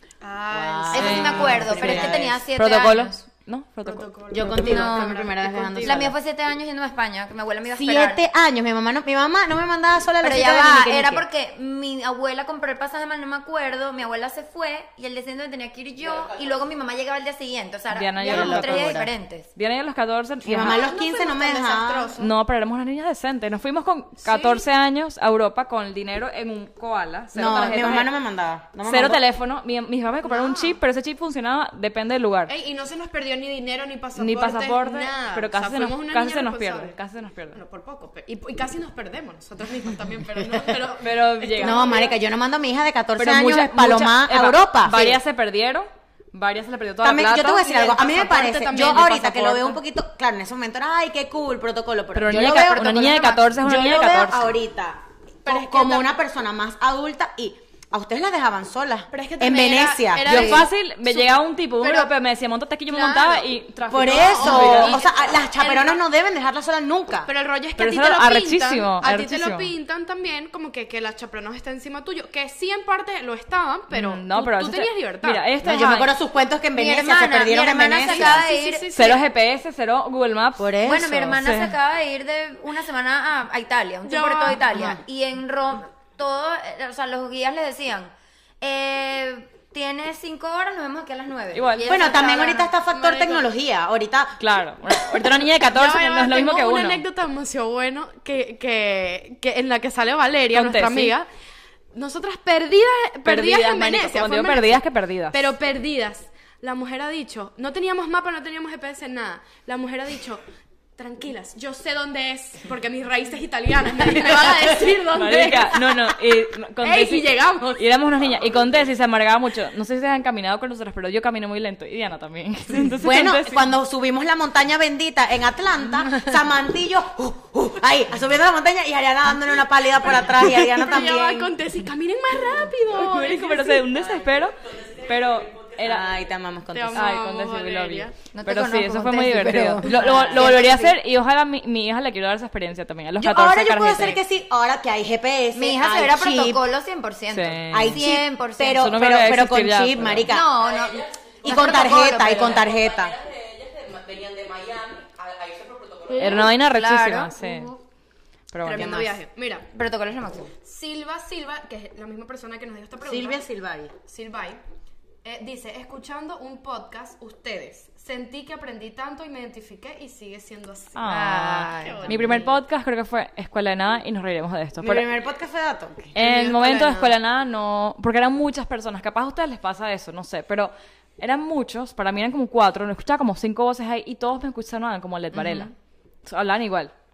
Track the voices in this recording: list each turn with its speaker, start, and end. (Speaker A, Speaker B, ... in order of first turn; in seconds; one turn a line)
Speaker A: 0.2-2.1
Speaker B: 0.5-2.4
Speaker C: 0.9-3.2
Speaker D: 0.9-4.4
Speaker A: 3.9-6.1
Speaker B: 4.3-6.1
Speaker C: 4.5-5.2
Speaker C: 5.8-8.2
Speaker B: 7.7-11.2
Speaker C: 10.2-19.5
Speaker E: 16.0-16.6
Speaker D: 17.9-20.9
Speaker A: 18.2-18.6
Speaker B: 18.2-19.1
Speaker B: 20.4-22.1
Speaker A: 20.6-22.3
Speaker D: 22.2-28.1
Speaker A: 24.2-24.6
Speaker B: 27.3-29.2
Speaker D: 28.8-32.5
Speaker A: 30.2-30.8
Speaker A: 32.5-37.0
Speaker D: 34.2-37.6
Speaker A: 37.5-42.2
Speaker B: 40.5-40.8
Speaker D: 41.0-42.0
Speaker B: 41.6-45.2
Speaker D: 43.2-47.6
Speaker B: 47.0-60.4
Speaker A: 47.5-49.8
Speaker D: 52.1-54.5
Speaker A: 55.5-56.1
Speaker A: 59.1-62.1
Speaker D: 60.2-65.0
Speaker C: 60.3-60.7
Speaker A: 62.9-66.0
Speaker B: 63.9-67.3
Speaker A: 67.3-75.5
Speaker D: 67.8-69.7
Speaker D: 73.9-76.1
Speaker B: 75.6-78.5
Speaker C: 76.8-78.9
Speaker A: 78.0-79.2
Speaker D: 78.9-81.7
Speaker B: 80.6-81.3
Speaker C: 80.8-92.7
Speaker A: 84.0-85.0
Speaker D: 91.5-91.9
Speaker B: 91.9-94.4
Speaker A: 92.9-93.5
Speaker D: 94.4-97.0
Speaker A: 95.7-101.3
Speaker D: 100.5-101.2
Speaker A: 101.9-110.4
Speaker D: 103.2-105.5
Speaker A: 111.0-116.2
Speaker D: 115.1-123.7
Speaker A: 116.8-117.8
Speaker B: 123.0-131.5
Speaker A: 130.4-133.9
Speaker D: 132.9-136.1
Speaker E: 133.9-136.3
Speaker B: 135.8-137.1
Speaker A: 136.7-138.1
Speaker D: 136.9-144.2
Speaker C: 138.3-140.9
Speaker A: 139.9-140.4
Speaker B: 140.0-140.4
Speaker B: 143.2-146.7
Speaker C: 145.5-149.0
Speaker D: 147.3-148.0
Speaker B: 147.7-150.5
Speaker D: 148.7-150.3
Speaker C: 150.3-152.7
Speaker E: 150.5-156.4
Speaker B: 151.4-153.2
Speaker C: 156.1-157.8
Speaker D: 156.2-157.7
Speaker D: 158.5-159.1
Speaker A: 158.6-159.7
Speaker B: 158.7-159.1
Speaker C: 159.7-160.5
Speaker A: 160.6-163.4
Speaker B: 163.0-163.9
Speaker A: 164.1-164.6
Speaker A: 165.2-171.0
Speaker D: 170.9-175.1
Speaker C: 171.1-172.2
Speaker A: 171.8-172.6
Speaker B: 174.8-176.2
Speaker A: 176.2-177.1
Speaker D: 176.2-185.7
Speaker C: 185.3-185.7
Speaker D: 186.2-186.9